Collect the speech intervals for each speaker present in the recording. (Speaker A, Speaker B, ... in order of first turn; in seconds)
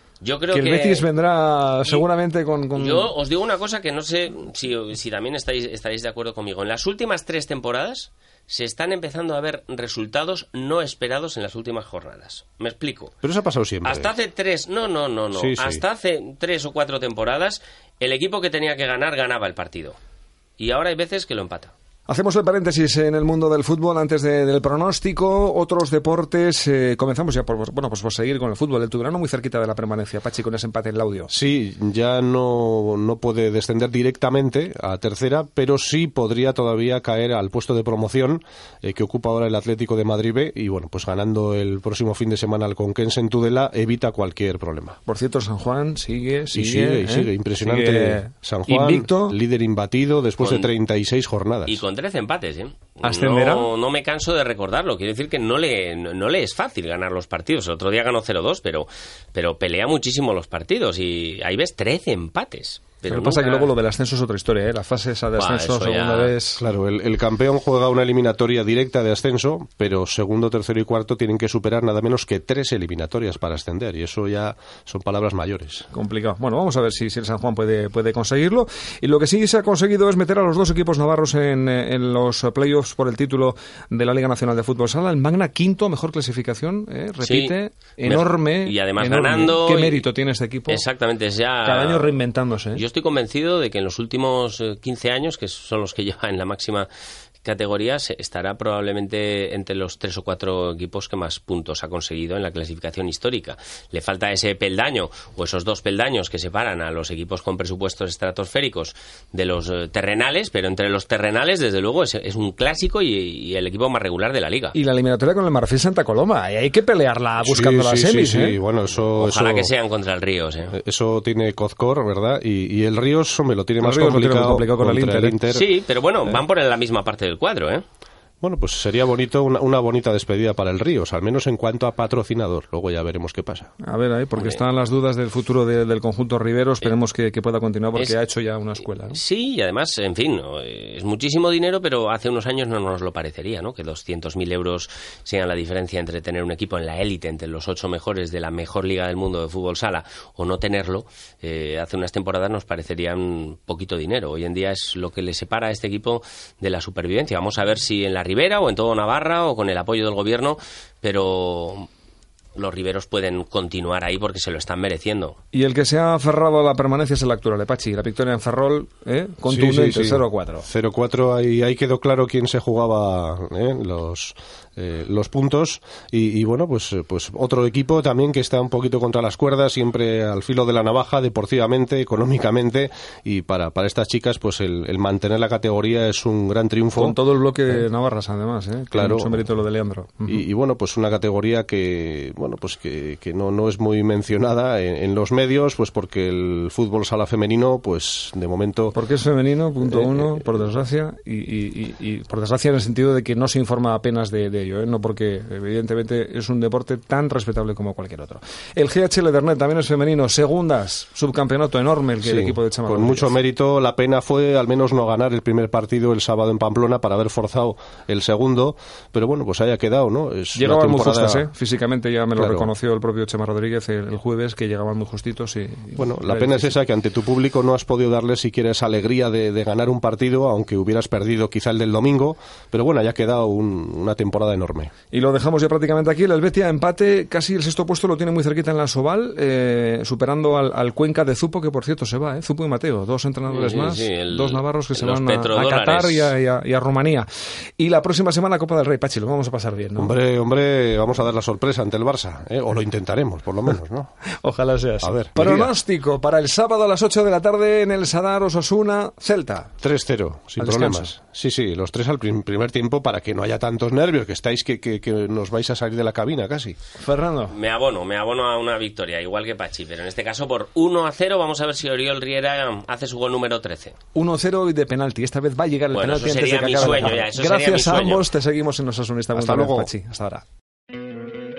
Speaker A: 0.2-1.1, 2.7-13.2, 13.8-20.0, 20.6-21.7, 50.4-50.7, 51.6-63.7, 65.3-66.3, 87.2-90.0, 90.7-92.2, 92.7-96.9, 97.4-114.7, 119.1-120.7, 125.5-127.8, 139.1-161.9, 162.6-165.4, 243.5-246.3, 267.5-274.0, 275.9-278.2
Speaker B: 0.5-3.1, 22.1-31.3, 45.0-49.4, 53.0-53.7, 63.1-66.6, 75.9-90.8, 91.6-92.8, 114.7-118.6, 123.8-125.4, 133.8-139.2, 165.5-170.7, 186.9-190.4, 198.9-213.3, 220.5-226.8, 235.1-247.3, 247.8-250.2, 254.4-259.7, 260.6-261.1, 267.0-267.5, 274.1-280.4
Speaker C: 13.2-14.1, 15.3-15.8, 31.3-45.0, 46.5-51.8, 66.6-75.9, 117.4-119.7, 120.7-125.6, 128.4-133.7, 169.5-187.8, 188.9-189.4, 190.3-199.0, 199.8-200.4, 212.2-221.4, 222.3-222.7, 225.9-234.9, 249.9-254.1, 255.0-255.7, 259.8-266.8, 279.3-279.9